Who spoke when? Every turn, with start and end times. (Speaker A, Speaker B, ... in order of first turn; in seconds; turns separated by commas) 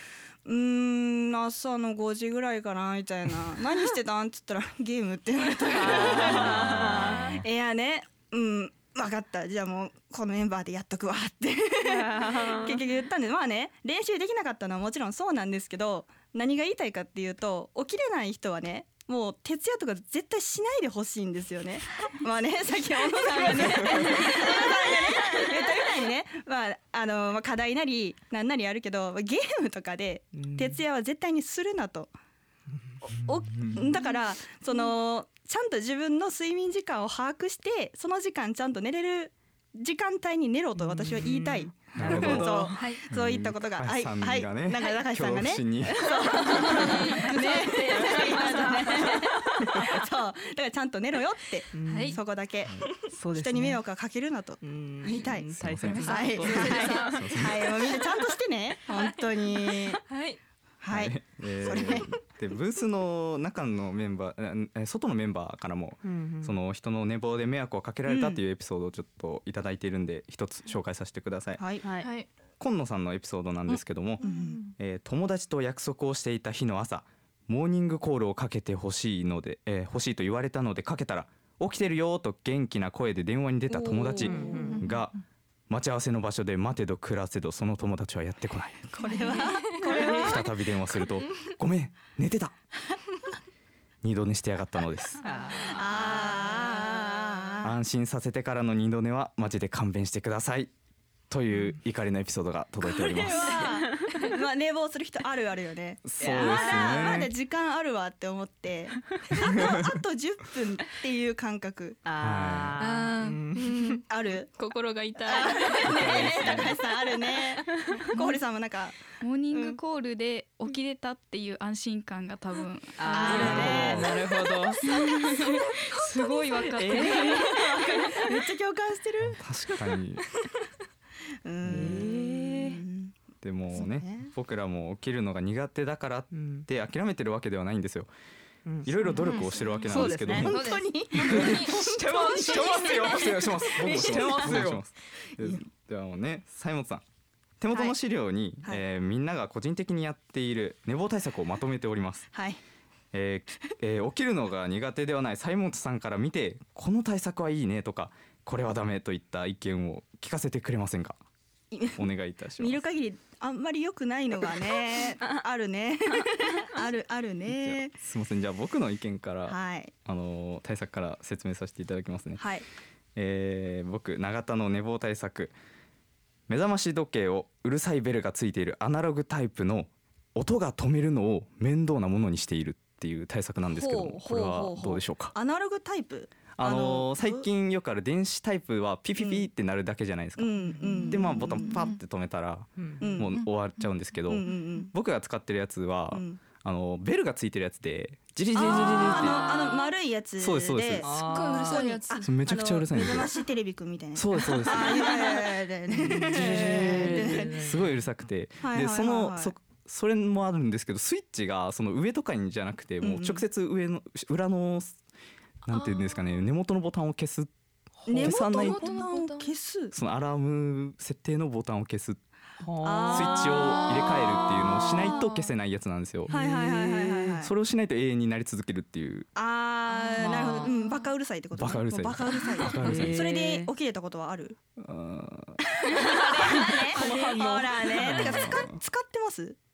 Speaker A: 0.5-32.1, Speaker B: 5.7-7.4, Speaker C: 6.5-7.0, Speaker B: 11.8-12.8, Speaker B: 23.6-24.3, Speaker D: 23.9-25.6, Speaker B: 30.3-30.8, Speaker A: 33.1-60.0, Speaker C: 33.2-33.9, Speaker B: 40.8-42.9, Speaker C: 42.0-46.2, Speaker D: 42.8-43.0, Speaker D: 46.1-49.3, Speaker B: 46.5-49.8, Speaker B: 51.7-52.2, Speaker D: 51.9-52.2, Speaker B: 53.1-53.8, Speaker B: 54.6-57.2, Speaker C: 55.5-56.1, Speaker D: 55.9-58.2, Speaker C: 57.1-57.7, Speaker D: 58.9-60.4, Speaker A: 60.8-62.2, Speaker C: 60.9-71.6, Speaker B: 66.0-66.6, Speaker A: 68.1-68.4, Speaker A: 71.6-71.9, Speaker B: 71.8-72.1, Speaker D: 72.0-72.3, Speaker C: 72.6-74.2, Speaker A: 74.2-74.6, Speaker D: 74.2-74.7, Speaker C: 74.8-85.1, Speaker A: 83.7-84.8, Speaker B: 84.2-84.8, Speaker C: 85.7-88.9, Speaker A: 88.9-90.5, Speaker D: 89.2-90.4, Speaker C: 90.0-92.5, Speaker C: 94.0-95.2, Speaker B: 95.2-97.3, Speaker D: 95.3-95.7, Speaker A: 95.5-97.8, Speaker C: 97.6-100.7, Speaker C: 101.3-103.7, Speaker A: 102.9-112.0, Speaker B: 103.9-104.3, Speaker C: 106.0-107.3, Speaker B: 106.2-107.2, Speaker C: 109.6-109.9, Speaker B: 112.0-113.7, Speaker C: 112.2-112.8, Speaker D: 112.8-116.7, Speaker A: 113.9-114.5, Speaker A: 115.2-119.8, Speaker C: 115.9-116.8, Speaker E: 118.1-118.4, Speaker E: 119.2-124.0, Speaker B: 123.0-124.8, Speaker A: 123.1-124.2, Speaker C: 123.3-124.1, Speaker A: 124.8-125.6, Speaker E: 124.8-127.5, Speaker A: 126.2-129.4, Speaker B: 126.7-128.2, Speaker C: 129.3-130.2, Speaker A: 131.4-133.1, Speaker C: 131.6-132.1, Speaker B: 131.7-132.8, Speaker C: 133.4-138.1, Speaker A: 133.7-134.3, Speaker B: 136.3-136.7, Speaker B: 138.7-140.5, Speaker C: 138.8-141.7, Speaker D: 139.2-143.4, Speaker A: 139.3-143.0, Speaker B: 141.2-144.8, Speaker C: 142.7-147.0, Speaker A: 143.8-144.7, Speaker C: 147.6-152.3, Speaker A: 152.3-152.6, Speaker C: 153.1-161.2, Speaker A: 161.7-162.0, Speaker C: 162.0-162.8, Speaker A: 162.6-167.9, Speaker C: 167.5-172.4, Speaker A: 169.5-169.9, Speaker A: 172.4-172.7, Speaker C: 173.2-175.5, Speaker C: 176.5-185.3, Speaker A: 183.7-187.5, Speaker C: 186.6-199.5, Speaker A: 189.2-189.5, Speaker A: 190.4-191.9, Speaker B: 192.8-193.2, Speaker A: 193.0-193.5, Speaker A: 194.3-194.9, Speaker A: 196.1-196.4, Speaker A: 198.5-207.5, Speaker B: 198.6-199.9, Speaker C: 200.4-201.2, Speaker B: 201.0-201.8, Speaker D: 201.3-202.3, Speaker C: 202.2-203.3, Speaker C: 204.2-205.3, Speaker C: 206.0-215.0, Speaker B: 206.1-208.0, Speaker A: 208.6-209.5, Speaker A: 213.0-213.4, Speaker C: 215.7-217.5, Speaker D: 215.7-216.3, Speaker C: 218.1-219.0, Speaker A: 218.1-219.9, Speaker D: 218.2-219.5, Speaker C: 219.9-222.2, Speaker B: 222.6-223.8, Speaker A: 222.8-225.2, Speaker C: 223.1-226.3, Speaker D: 223.8-225.5, Speaker B: 226.3-227.3, Speaker A: 226.3-227.5, Speaker C: 227.2-229.3, Speaker A: 229.4-234.6, Speaker D: 230.0-231.1, Speaker B: 230.2-230.7, Speaker C: 231.6-233.3, Speaker B: 232.7-233.7, Speaker C: 234.8-235.6, Speaker A: 235.7-239.6, Speaker B: 236.0-238.5, Speaker C: 238.0-238.8